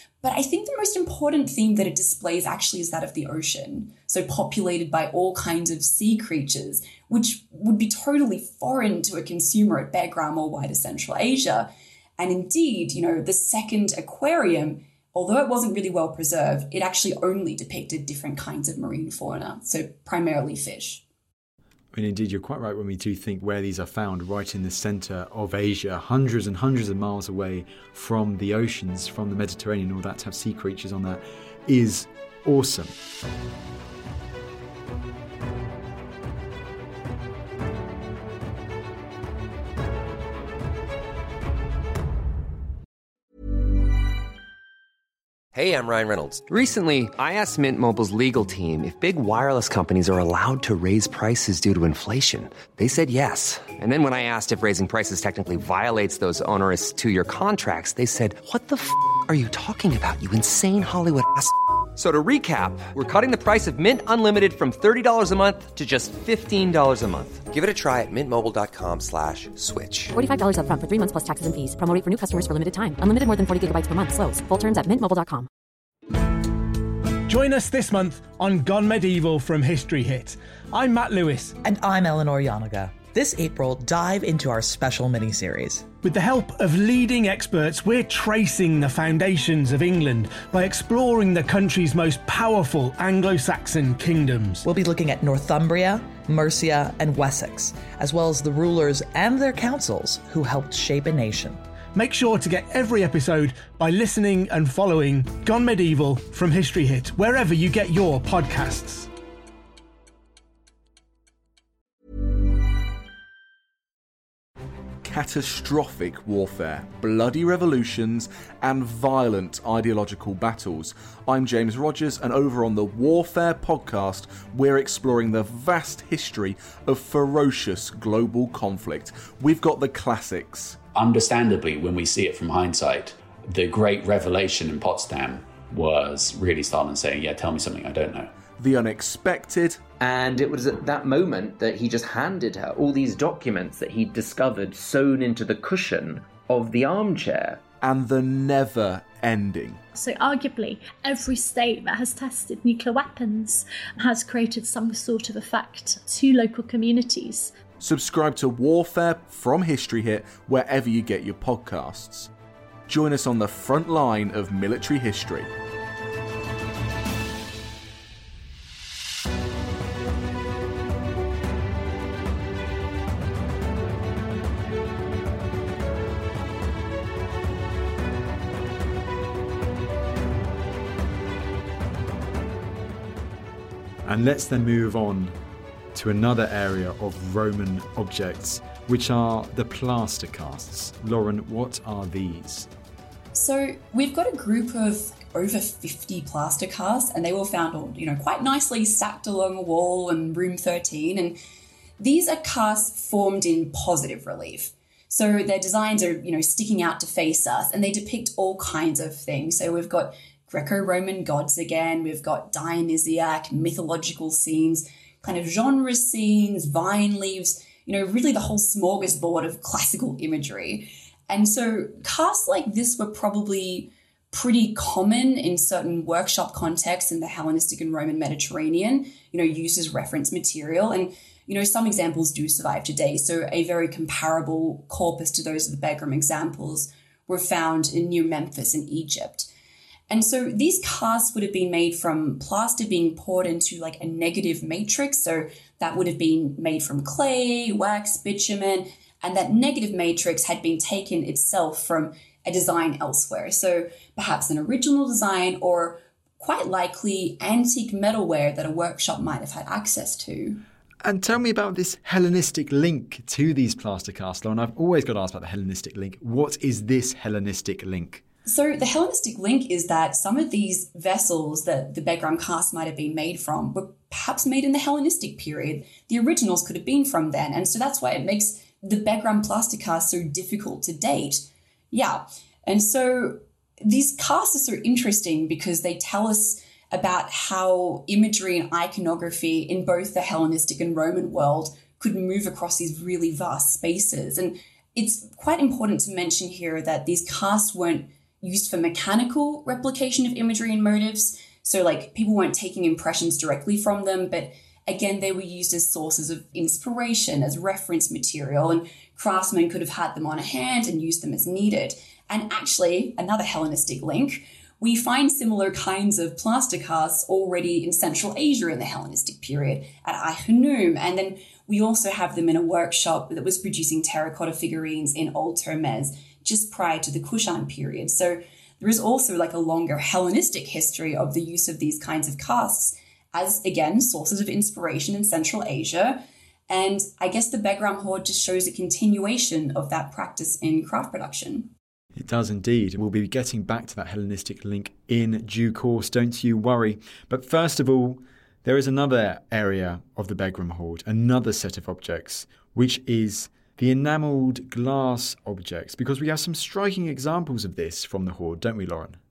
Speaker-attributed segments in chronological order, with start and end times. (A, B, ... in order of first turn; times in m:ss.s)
0:00.2-0:21.0 A
0:21.9-0:32.9 B
0:45.5-1:10.2 C
1:10.1-1:15.5 D
1:17.2-1:21.6 E
1:21.6-1:25.9 F
1:26.0-1:34.6 E
1:34.6-1:41.6 F
1:41.9-1:49.1 E
1:55.0-2:10.8 G
2:10.9-2:18.3 H
2:18.6-2:19.8 G
2:20.0-2:27.6 I
2:27.8-2:29.8 G
2:29.9-2:37.5 J
2:37.8-2:42.3 G
2:42.9-2:45.5 G
3:04.0-3:05.3 B
3:05.9-3:12.7 B
3:13.3-3:21.4 A
3:22.0-3:59.5 A
4:00.1-4:20.6 A
4:21.0-4:28.2 B
4:28.4-5:41.7 A
5:42.1-5:59.2 B